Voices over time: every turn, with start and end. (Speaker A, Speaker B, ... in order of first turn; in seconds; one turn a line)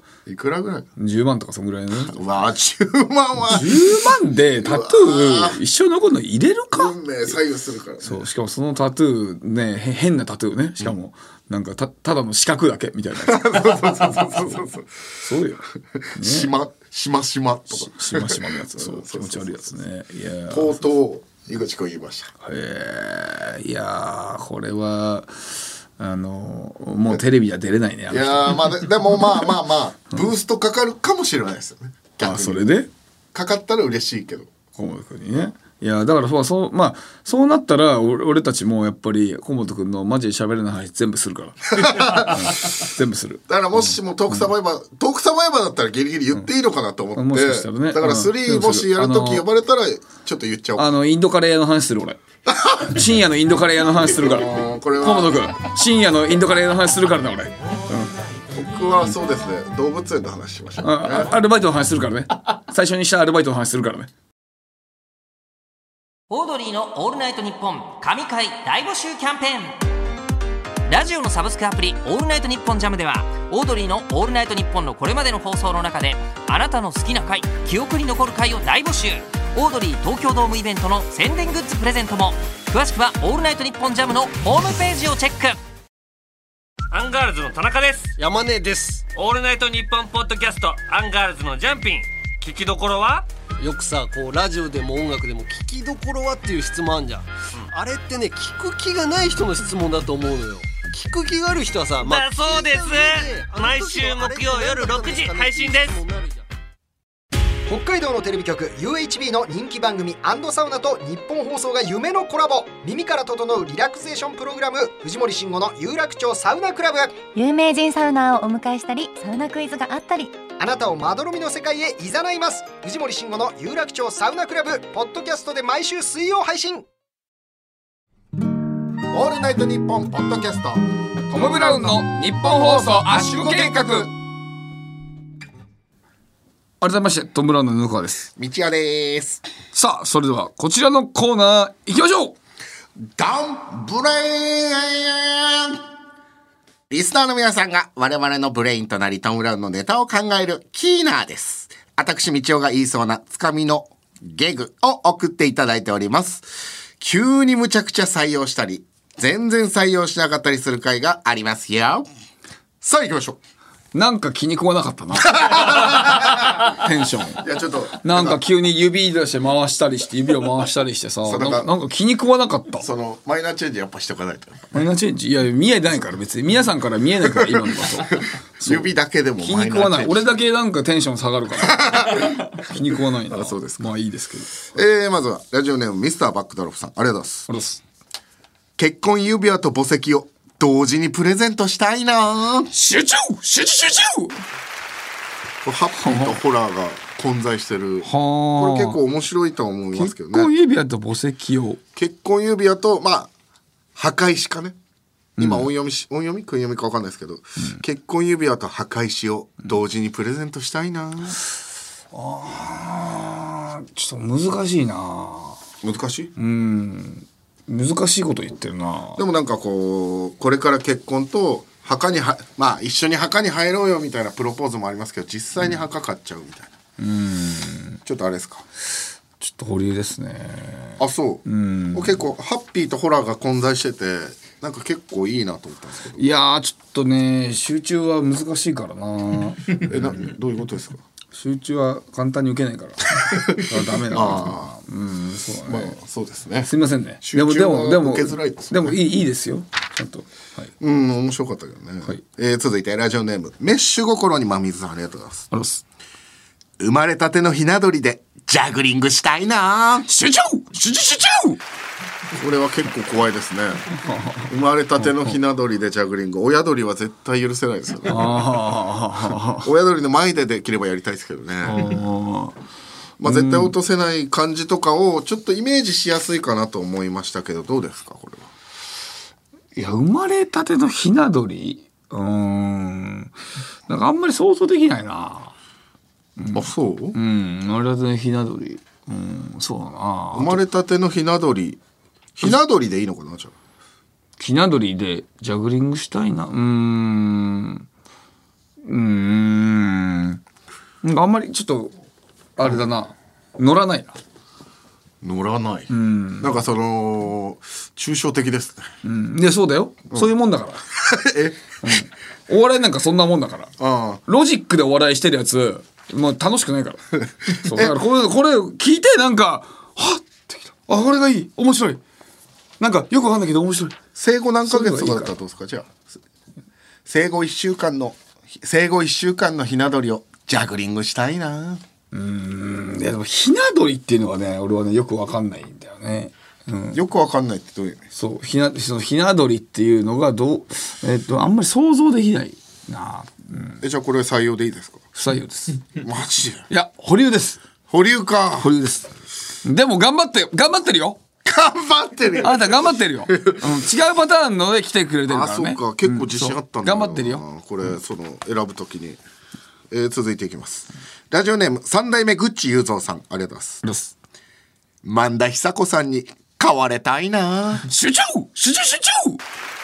Speaker A: 0.2-0.9
Speaker B: 1.0-2.2
Speaker A: 1.9-4.0
Speaker B: 3.5-7.3
Speaker A: 4.6-5.6
Speaker A: 6.7-8.2
Speaker B: 8.0-14.6
Speaker A: 13.2-14.9
Speaker B: 15.2-16.5
Speaker A: 16.0-19.8
Speaker B: 17.7-20.8
Speaker A: 20.5-22.3
Speaker B: 22.4-28.9
Speaker A: 28.1-32.6
Speaker B: 32.2-32.9
Speaker A: 33.3-34.5
Speaker B: 34.8-44.5
Speaker A: 41.7-42.7
Speaker A: 43.5-50.9
Speaker B: 47.1-49.5
Speaker B: 50.8-52.2
Speaker A: 52.5-53.0
Speaker B: 52.8-58.1
Speaker A: 54.0-55.5
Speaker A: 58.5-61.3
Speaker B: 60.8-64.1
Speaker C: 66.3-69.8
Speaker C: 70.9-85.6
Speaker D: 86.9-88.1
Speaker E: 88.2-89.1
Speaker D: 89.1-93.3
Speaker E: 93.6-106.5
Speaker D: 102.0-106.0
Speaker F: 107.7-117.2
Speaker G: 117.2-120.4
Speaker F: 120.6-126.9
Speaker A: 129.1-130.8
Speaker B: 131.3-134.1
Speaker A: 132.6-134.1
Speaker B: 136.8-138.3
Speaker A: 138.3-139.4
Speaker B: 139.7-142.3
Speaker A: 143.1-145.8
Speaker A: 146.9-162.1
Speaker A: 162.8-163.4
Speaker B: 163.9-167.4
Speaker A: 165.3-166.7
Speaker A: 167.3-168.4
Speaker B: 168.0-172.9
Speaker A: 171.2-171.7
Speaker A: 172.8-174.8
Speaker B: 174.7-184.7
Speaker A: 177.3-180.4
Speaker A: 181.6-183.9
Speaker A: 184.7-187.5
Speaker B: 187.5-187.8
Speaker A: 188.8-192.7
Speaker B: 192.7-194.4
Speaker A: 195.6-200.5
Speaker B: 196.0-196.4
Speaker B: 198.0-199.0
Speaker B: 199.9-201.8
Speaker A: 201.9-203.3
Speaker A: 203.9-204.8
Speaker B: 205.4-205.7
Speaker A: 205.4-211.4
Speaker B: 212.1-215.6
Speaker A: 215.8-216.3
Speaker B: 216.3-219.2
Speaker A: 219.2-226.7
Speaker B: 227.0-228.0
Speaker A: 228.0-228.6
Speaker B: 229.4-232.2
Speaker A: 231.0-236.2
Speaker B: 236.1-239.9
Speaker A: 239.8-241.0
Speaker B: 241.3-246.0
Speaker A: 243.2-244.8
Speaker A: 245.6-249.0
Speaker B: 246.6-250.7
Speaker A: 250.8-255.5
Speaker B: 255.5-255.8
Speaker A: 256.8-260.1
Speaker B: 260.1-261.6
Speaker A: 262.3-264.0
Speaker B: 264.0-264.5
Speaker A: 264.5-268.5
Speaker B: 268.1-269.7
Speaker A: 269.6-272.0
Speaker B: 271.6-272.6
Speaker A: 273.2-278.5
Speaker B: 273.2-273.7
Speaker B: 279.7-283.3
Speaker B: 283.9-285.6
Speaker B: 286.4-290.6
Speaker A: 286.5-287.2
Speaker A: 290.3-291.8
Speaker A: 292.3-293.5
Speaker B: 294.4-297.9
Speaker B: 298.8-300.4
Speaker B: 301.0-301.9
Speaker B: 302.6-304.2
Speaker A: 305.2-308.8
Speaker B: 305.9-306.5
Speaker B: 309.0-310.8
Speaker A: 310.9-311.9
Speaker B: 311.8-313.7
Speaker A: 313.8-314.2
Speaker B: 314.2-322.0
Speaker B: 322.8-324.0
Speaker A: 324.1-326.1
Speaker B: 324.6-325.3
Speaker A: 327.1-331.8
Speaker B: 332.1-337.0
Speaker A: 336.9-338.1
Speaker B: 338.1-343.8
Speaker A: 343.8-345.0
Speaker B: 345.1-346.0
Speaker A: 346.0-346.7
Speaker B: 346.7-347.6
Speaker A: 347.9-348.7
Speaker B: 348.6-349.1
Speaker B: 349.6-351.2
Speaker A: 351.4-353.6
Speaker B: 352.4-357.4
Speaker A: 355.3-359.2
Speaker A: 359.9-363.8
Speaker B: 363.8-364.1
Speaker A: 365.0-367.9
Speaker B: 367.9-369.4